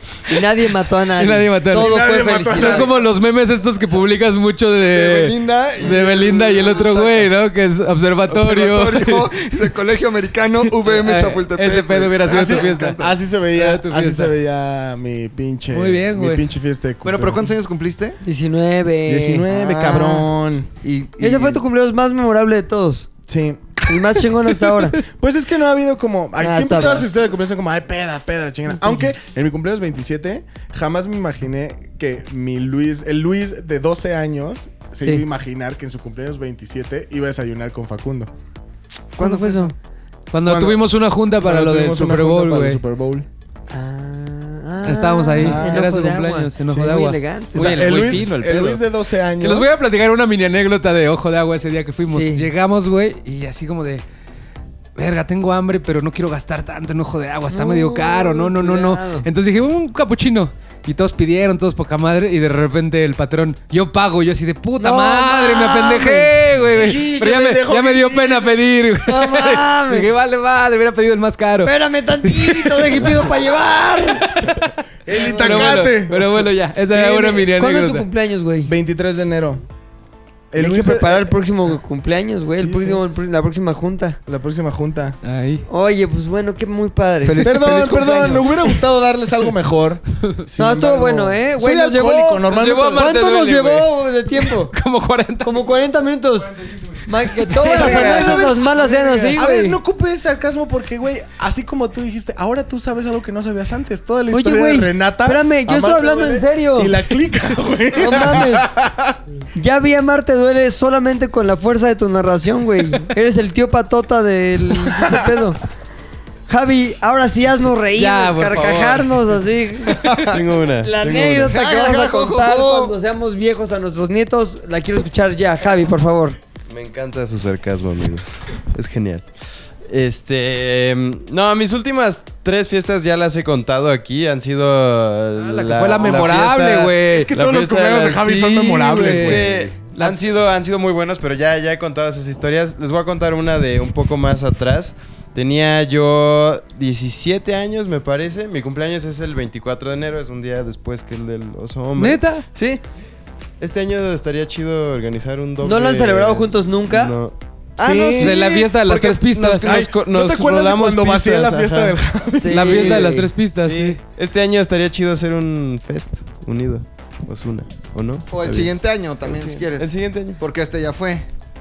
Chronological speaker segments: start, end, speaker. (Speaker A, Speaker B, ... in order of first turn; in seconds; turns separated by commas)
Speaker A: 0.3-2.9, Speaker B: 1.2-9.6, Speaker C: 1.7-3.1, Speaker D: 4.9-7.3, Speaker D: 8.3-13.1, Speaker B: 10.7-14.3, Speaker C: 12.2-17.5, Speaker B: 15.7-16.5, Speaker D: 17.0-18.2, Speaker A: 18.2-19.4, Speaker C: 19.1-20.7, Speaker D: 19.5-20.3, Speaker D: 20.8-21.6, Speaker A: 21.2-23.1, Speaker C: 23.3-23.8, Speaker A: 23.9-25.0, Speaker C: 25.0-38.3, Speaker A: 26.4-27.1, Speaker A: 28.7-29.1, Speaker D: 39.2-39.7, Speaker A: 39.2-39.7, Speaker B: 40.3-42.8, Speaker C: 40.5-40.8, Speaker C: 41.4-43.3, Speaker A: 43.7-48.2, Speaker B: 44.8-48.8, Speaker C: 45.4-45.8, Speaker C: 47.5-49.7, Speaker B: 49.4-54.0, Speaker A: 52.1-52.5, Speaker B: 55.0-73.3, Speaker A: 57.5-59.3, Speaker A: 64.8-66.3, Speaker C: 66.7-68.6, Speaker A: 69.1-70.1, Speaker A: 71.6-74.5, Speaker C: 75.1-77.5, Speaker B: 75.1-78.1, Speaker A: 75.1-75.8, Speaker A: 77.5-78.7, Speaker C: 78.7-79.6, Speaker C: 80.5-81.3, Speaker A: 80.6-84.2, Speaker C: 82.5-83.0, Speaker C: 84.3-85.2, Speaker B: 85.2-85.6, Speaker A: 85.7-88.7, Speaker D: 87.2-88.2, Speaker C: 87.4-93.1, Speaker A: 90.6-94.7, Speaker B: 92.5-95.7, Speaker A: 95.4-96.5, Speaker A: 97.0-99.8, Speaker B: 97.5-98.3, Speaker C: 97.5-109.2, Speaker A: 104.3-107.0, Speaker A: 108.0-108.7, Speaker A: 109.5-115.6, Speaker C: 114.8-115.4, Speaker A: 116.5-120.2, Speaker B: 118.0-119.3, Speaker D: 119.9-122.9, Speaker E: 120.3-121.5, Speaker A: 120.8-126.4, Speaker E: 126.7-129.2, Speaker E: 129.9-152.8, Speaker B: 135.4-137.3, Speaker C: 136.9-139.6, Speaker B: 138.7-140.2, Speaker B: 152.0-152.4, Speaker E: 153.6-162.0, Speaker A: 155.6-157.2, Speaker C: 157.8-158.7, Speaker B: 158.2-159.8, Speaker C: 159.6-163.1, Speaker A: 162.4-163.3, Speaker B: 162.5-164.0, Speaker E: 163.6-168.7, Speaker D: 168.3-171.2, Speaker E: 169.2-170.4